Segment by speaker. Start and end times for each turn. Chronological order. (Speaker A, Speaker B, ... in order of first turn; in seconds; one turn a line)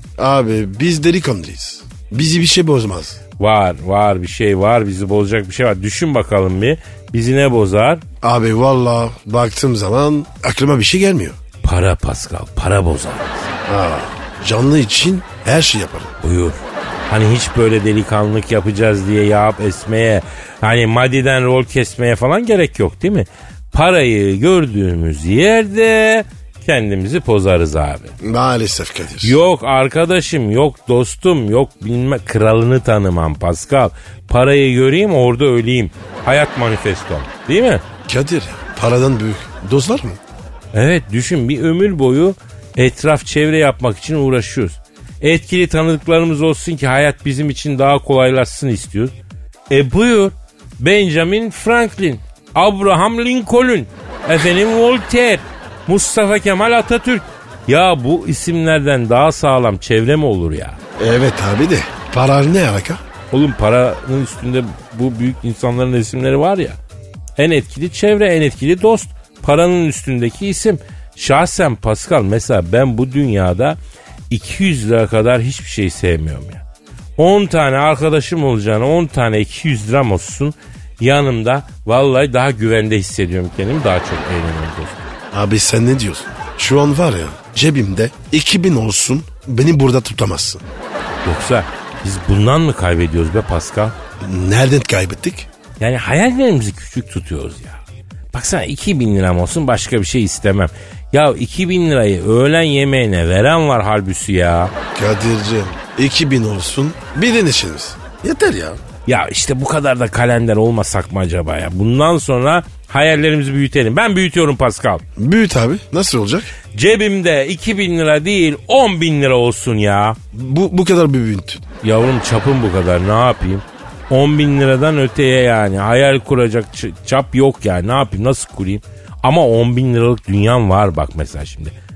Speaker A: 0.2-3.2
Speaker B: 3.4-8.0
Speaker A: 8.2-11.4
Speaker B: 11.6-13.6
Speaker A: 13.7-16.1
Speaker B: 16.2-28.1
Speaker A: 28.2-29.4
Speaker B: 29.2-37.8
Speaker A: 38.1-40.2
Speaker B: 40.7-49.1
Speaker B: 49.7-60.8
Speaker A: 61.0-63.0
Speaker B: 63.3-66.8
Speaker B: 67.4-73.8
Speaker B: 74.3-76.6
Speaker B: 77.2-85.1
Speaker A: 85.3-90.6
Speaker B: 91.2-94.0
Speaker A: 94.2-95.5
Speaker B: 95.8-97.8
Speaker B: 98.3-104.7
Speaker A: 105.0-108.8
Speaker B: 109.1-115.0
Speaker A: 115.2-116.5
Speaker B: 116.7-120.2
Speaker A: 120.3-121.6
Speaker B: 121.8-131.8